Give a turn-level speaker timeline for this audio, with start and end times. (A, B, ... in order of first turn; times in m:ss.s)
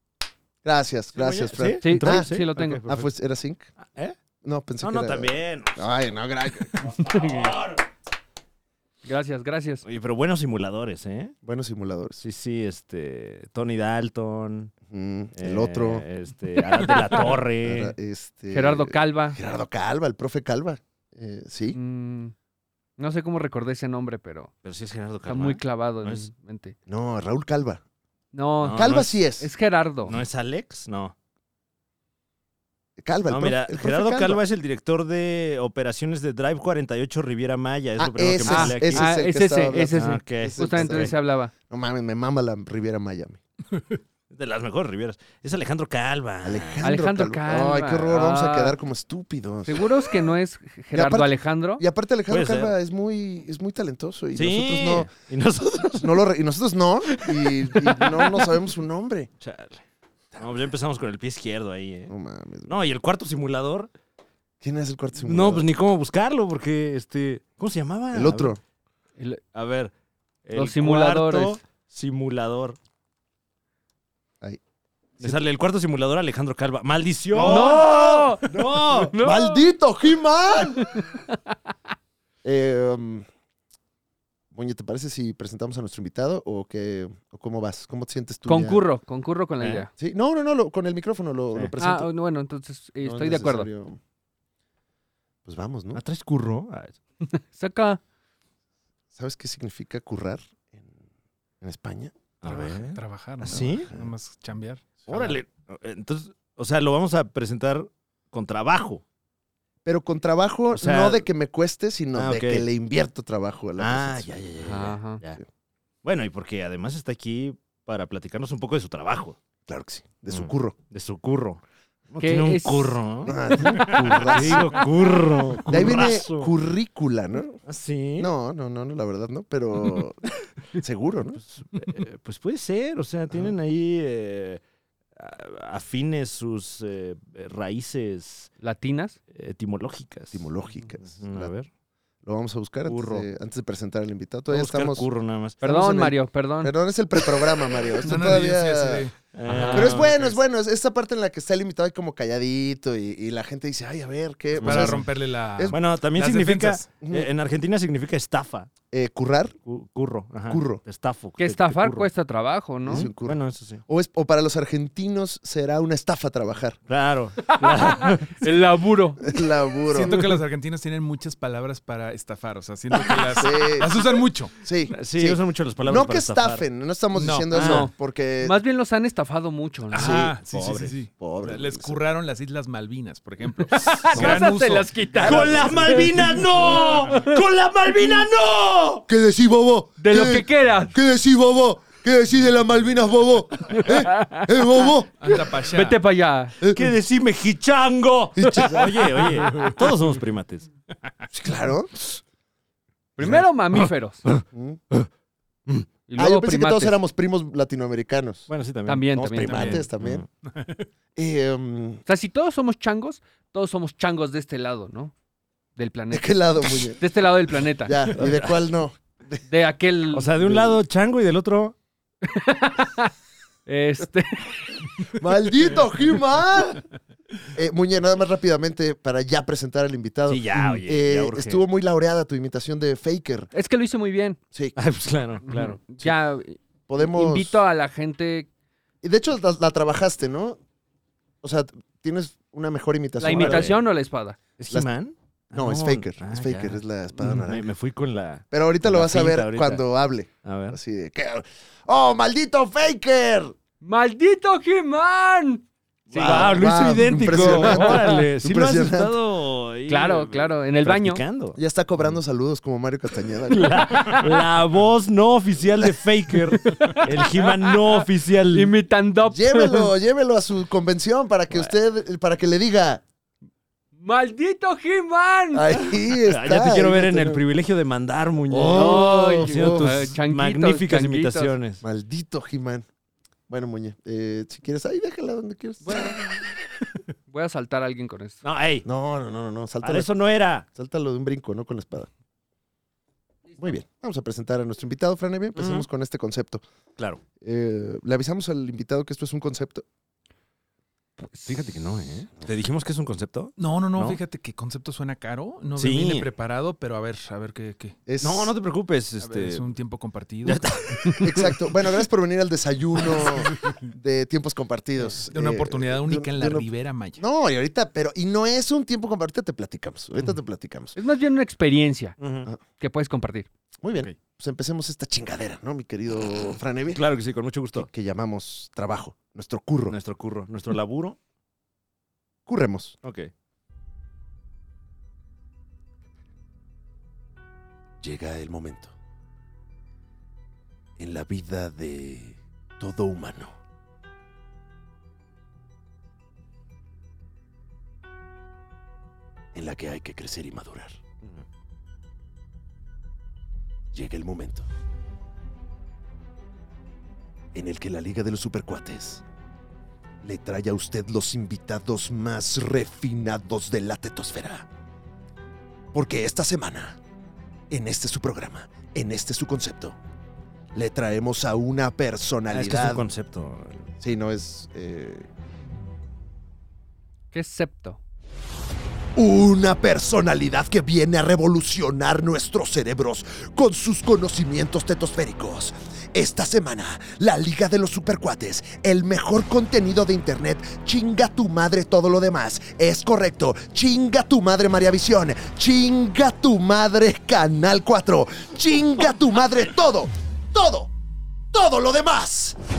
0:00.6-0:02.3 A
0:01.1-0:03.1 B
0:01.8-0:02.8 C
0:02.8-0:03.7 A
0:03.8-0:04.2 B
0:04.4-0:06.9 A
0:04.8-0:05.9 B
0:06.8-0:07.8 B
0:07.0-0:07.6 C
0:09.0-0:09.8 C
0:09.8-0:11.3 B
0:11.4-0:12.2 A
0:12.2-0:14.7 B
0:14.9-0:16.0 A
0:15.4-0:17.9 B
0:17.6-0:21.8 A
0:18.5-0:19.4 C
0:21.7-0:22.3 C
0:23.0-0:24.5 C
0:24.6-0:26.3 B
0:25.2-0:26.8 C
0:26.9-0:27.8 A
0:28.3-0:30.2 C
0:28.6-0:29.1 B
0:28.7-0:29.5 A
0:30.0-0:31.2 B
0:33.0-0:34.4 A
0:33.3-0:39.1 B
0:38.0-0:43.4 A
0:38.4-0:41.5 C
0:39.9-0:41.2 B
0:44.3-0:46.9 B
0:46.4-0:49.8 A
0:46.8-0:48.8 C
0:49.7-0:51.8 C
0:50.9-0:55.1 A
0:52.3-0:52.7 B
0:54.4-0:56.3 B
0:56.0-0:59.3 A
0:59.4-0:59.8 B
1:00.4-1:02.1 B
1:02.1-1:02.7 A
1:02.6-1:03.9 B
1:04.6-1:05.7 A
1:05.2-1:08.5 B
1:08.1-1:08.6 A
1:09.5-1:09.9 B
1:10.4-1:12.8 B
1:10.5-1:11.6 C
1:15.2-1:15.4 A
1:15.2-1:19.2 B
1:17.3-1:18.4 A
1:17.4-1:18.5 C
1:19.1-1:19.7 C
1:19.2-1:20.9 A
1:22.4-1:23.3 A
1:24.5-1:28.8 A
1:28.5-1:29.9 C
1:29.6-1:29.9 B
1:30.0-1:32.1 A
1:31.8-1:33.7 C
1:33.0-1:34.0 A
1:35.5-1:36.0 A
1:35.9-1:37.0 B
1:37.3-1:38.0 C
1:39.2-1:40.8 A
1:41.6-1:42.1 A
1:42.4-1:44.0 B
1:42.4-1:45.4 D
1:43.5-1:44.1 A
1:45.1-1:49.0 B
1:49.8-1:54.4 A
1:50.7-1:51.3 B
1:52.1-1:52.7 B
1:53.8-1:55.4 B
1:54.6-1:55.2 C
1:56.0-1:59.4 B
1:59.7-2:00.8 A
2:00.3-2:06.5 B
2:02.2-2:03.0 C
2:03.2-2:04.8 A
2:05.7-2:07.6 A
2:07.6-2:08.3 B
2:08.2-2:10.2 A
2:10.7-2:11.4 A
2:11.4-2:14.6 B
2:15.1-2:18.5 B
2:18.6-2:19.2 C
2:19.3-2:20.4 B
2:20.3-2:21.5 A
2:21.0-2:21.7 B
2:22.2-2:25.1 A
2:22.9-2:23.2 B
2:24.5-2:25.6 B
2:25.6-2:29.1 A
2:25.6-2:26.7 C
2:28.0-2:30.4 D
2:29.3-2:30.1 B
2:29.7-2:35.1 A
2:34.6-2:36.9 D
2:34.6-2:35.0 B
2:35.7-2:38.7 B
2:37.0-2:37.3 A
2:38.9-2:39.6 A
2:39.6-2:42.1 B
2:40.5-2:40.8 A
2:41.4-2:43.1 C
2:42.8-2:43.8 B
2:42.8-2:46.8 A
2:46.9-2:48.5 B
2:47.5-2:49.4 C
2:49.2-2:50.1 A
2:49.9-2:54.5 D
2:53.3-2:53.9 A
2:54.6-2:58.6 A
2:54.9-2:56.6 B
2:57.1-2:57.5 D
2:57.5-2:57.9 B
2:57.6-3:00.2 C
2:59.9-3:05.0 D
3:00.0-3:00.4 A
3:00.5-3:00.9 B
3:01.2-3:02.0 A
3:03.8-3:07.4 C
3:03.8-3:04.4 B
3:05.1-3:09.1 B
3:05.2-3:06.4 A
3:09.1-3:15.1 A
3:10.0-3:10.9 C
3:13.9-3:14.7 C
3:15.2-3:16.0 D
3:15.3-3:16.6 C
3:16.7-3:20.7 B
3:18.4-3:19.2 A
3:18.6-3:19.2 C
3:21.3-3:21.9 A
3:23.2-3:24.2 C
3:23.2-3:24.4 B
3:24.5-3:24.8 A
3:26.1-3:27.0 C
3:26.2-3:28.5 A
3:28.5-3:30.2 B
3:28.8-3:29.8 C
3:29.1-3:30.2 A
3:30.6-3:30.8 D
3:31.2-3:32.0 A
3:32.1-3:35.1 C
3:35.8-3:38.1 C
3:36.1-3:37.0 A
3:37.8-3:39.4 A
3:38.2-3:38.7 B
3:39.5-3:40.3 C
3:40.1-3:41.8 B
3:40.4-3:40.8 A
3:42.2-3:43.1 C
3:43.7-3:44.9 C
3:45.1-3:46.8 A
3:47.5-3:53.5 A
3:50.3-3:51.6 B
3:53.5-3:54.4 C
3:54.8-3:55.8 B
3:55.4-3:58.5 C
3:56.9-3:57.6 A
3:59.0-4:00.6 A
4:01.4-4:03.7 A
4:03.2-4:04.4 C
4:03.2-4:03.8 B
4:04.6-4:09.8 B
4:05.5-4:07.7 A
4:08.5-4:13.5 A
4:10.4-4:10.8 B
4:13.8-4:18.2 C
4:16.1-4:21.6 B
4:16.1-4:19.2 A
4:19.9-4:21.2 C
4:21.6-4:24.1 A
4:23.5-4:28.7 B
4:23.6-4:24.4 C
4:26.5-4:29.9 C
4:29.3-4:33.0 A
4:34.0-4:35.8 C
4:35.5-4:37.4 A
4:36.2-4:41.8 B
4:38.5-4:40.0 A
4:38.7-4:41.5 C
4:41.8-4:42.9 A
4:43.5-4:46.2 A
4:45.8-4:46.3 C
4:47.3-4:48.4 C
4:48.4-4:48.9 B
4:48.8-4:50.1 A
4:49.8-4:50.6 B
4:50.6-4:52.1 A
4:53.6-4:56.6 A
4:55.6-4:55.9 B
4:57.4-4:59.8 A
5:01.4-5:04.2 B
5:03.6-5:08.0 D
5:05.8-5:06.3 B
5:08.1-5:08.6 A
5:08.2-5:09.6 B
5:09.2-5:10.6 D
5:10.4-5:11.5 B
5:11.2-5:21.0 A
5:13.0-5:13.4 B
5:15.3-5:17.2 D
5:21.0-5:22.2 C
5:22.2-5:22.5 B
5:22.8-5:23.5 C
5:23.8-5:27.0 A
5:26.9-5:27.9 B
5:27.8-5:30.0 A
5:29.9-5:31.2 B
5:32.4-5:33.0 A
5:33.0-5:33.3 B
5:38.0-5:38.9 A
5:41.0-5:43.6 A
5:49.5-5:51.0 A
5:53.9-5:54.7 A
5:57.5-5:59.2 A
6:00.2-6:04.7 A
6:05.9-6:07.0 A
6:07.7-6:10.0 A
6:10.8-6:13.0 A
6:12.5-6:13.9 B
6:14.0-6:15.3 A
6:17.3-6:18.0 C
6:19.2-6:40.9 A
6:41.5-6:42.6 A